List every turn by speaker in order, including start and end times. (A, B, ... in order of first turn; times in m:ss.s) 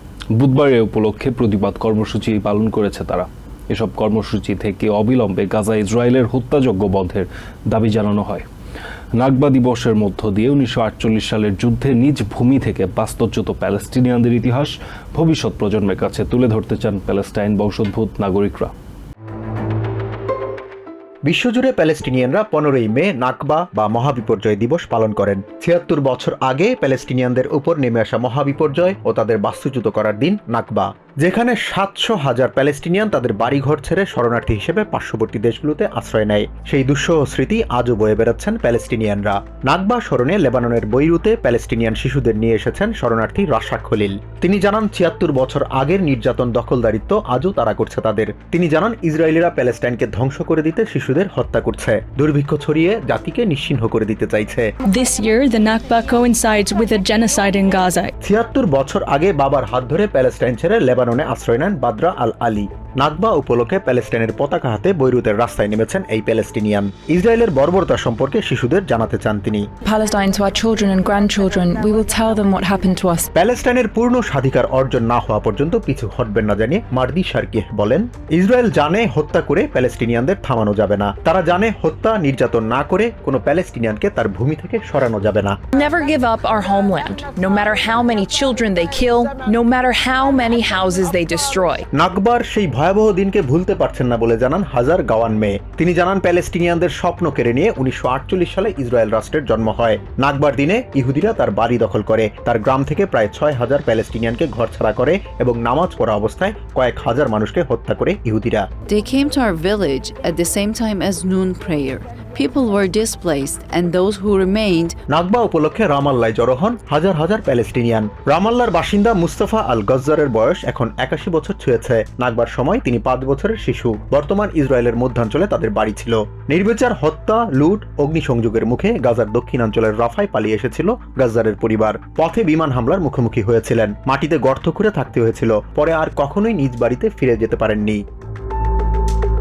0:00.3-0:08.4 A
0:09.1-0:18.7 A
0:21.2-0:54.7 B
0:54.9-0:58.1 C
0:58.2-1:09.7 B
1:09.8-1:13.3 D
1:13.3-1:25.6 B
1:25.7-1:31.8 D
1:31.9-1:48.7 B
1:48.9-1:54.9 E
1:55.1-2:18.0 B